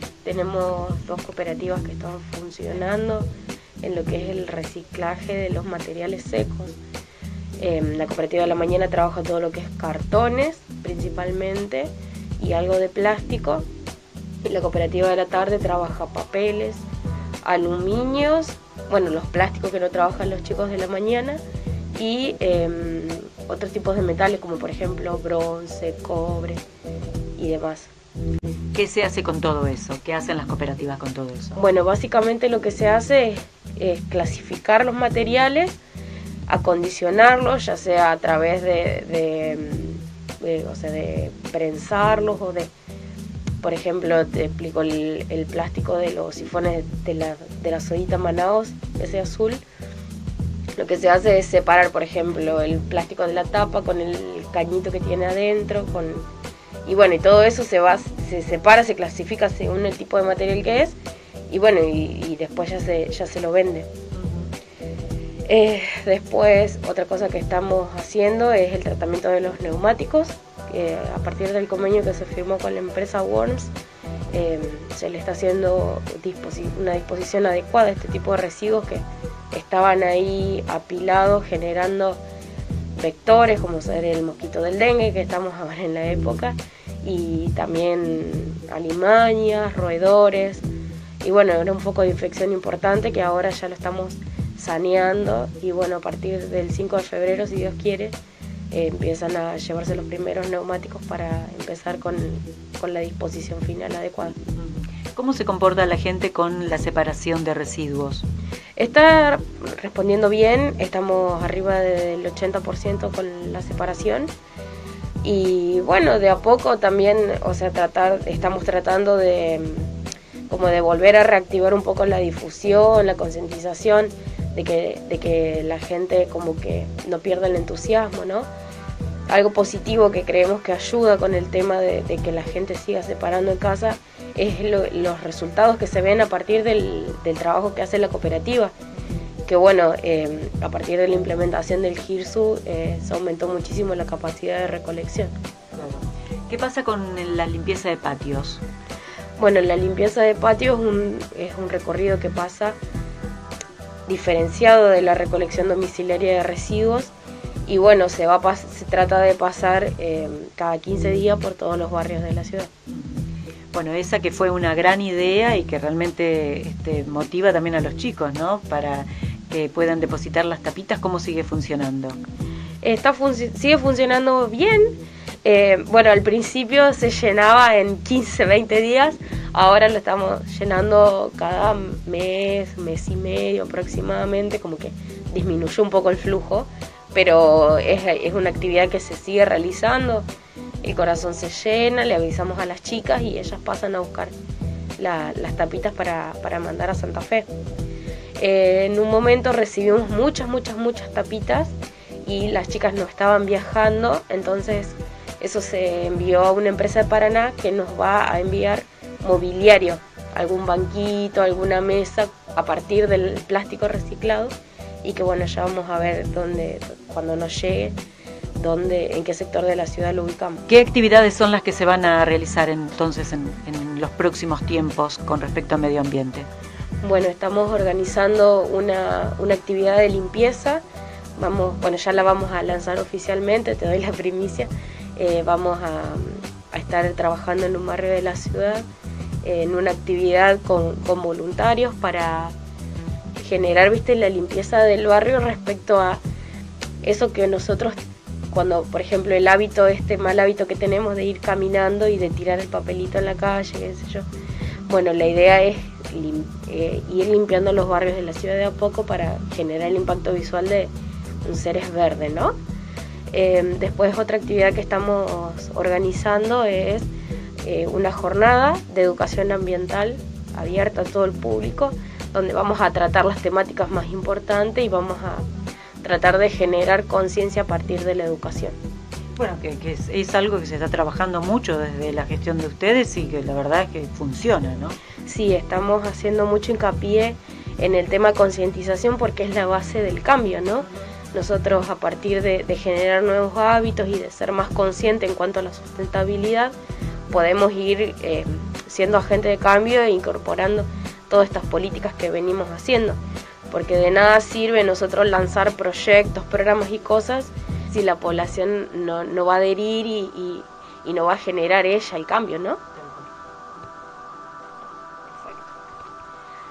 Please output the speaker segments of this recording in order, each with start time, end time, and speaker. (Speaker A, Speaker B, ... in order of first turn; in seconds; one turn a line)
Speaker A: 0.2-3.3
Speaker A: 3.8-6.8
Speaker A: 7.6-13.7
Speaker A: 14.4-16.8
Speaker A: 17.4-21.4
Speaker A: 21.9-26.6
Speaker A: 27.4-27.9
Speaker B: 28.8-31.6
Speaker A: 31.5-35.8
Speaker A: 36.5-42.7
Speaker A: 43.6-49.6
Speaker A: 50.8-56.3
Speaker A: 56.9-61.0
Speaker A: 61.5-63.9
Speaker B: 64.2-64.5
Speaker A: 65.5-73.7
Speaker A: 74.3-82.2
Speaker A: 83.0-90.7
Speaker A: 91.2-98.2
Speaker A: 98.7-104.4
Speaker B: 104.5-108.2
Speaker A: 108.8-114.3
Speaker A: 115.2-119.9
Speaker A: 120.5-128.5
Speaker A: 129.3-138.7
Speaker A: 139.5-145.3
Speaker B: 145.8-148.6
Speaker A: 149.4-152.8
Speaker A: 154.1-157.1
Speaker A: 157.7-162.7
Speaker B: 162.9-163.2
Speaker B: 163.7-172.2
Speaker A: 172.8-190.3
Speaker A: 190.8-194.3
Speaker A: 195.0-197.5
Speaker A: 198.4-201.7
Speaker A: 202.2-214.5
Speaker A: 215.0-217.9
Speaker A: 218.6-220.6
Speaker B: 220.7-226.5
Speaker A: 227.0-230.8
Speaker A: 231.4-238.9
Speaker A: 239.4-242.6
Speaker A: 243.4-246.2
Speaker A: 247.0-248.0
Speaker A: 248.5-254.3
Speaker A: 254.9-260.9
Speaker A: 261.4-262.6
Speaker A: 263.3-267.1
Speaker A: 267.6-275.5
Speaker A: 276.0-278.8
Speaker B: 279.4-285.0
Speaker A: 285.2-296.7
Speaker A: 297.3-303.2
Speaker A: 303.7-312.8
Speaker B: 313.0-313.3
Speaker B: 315.4-315.7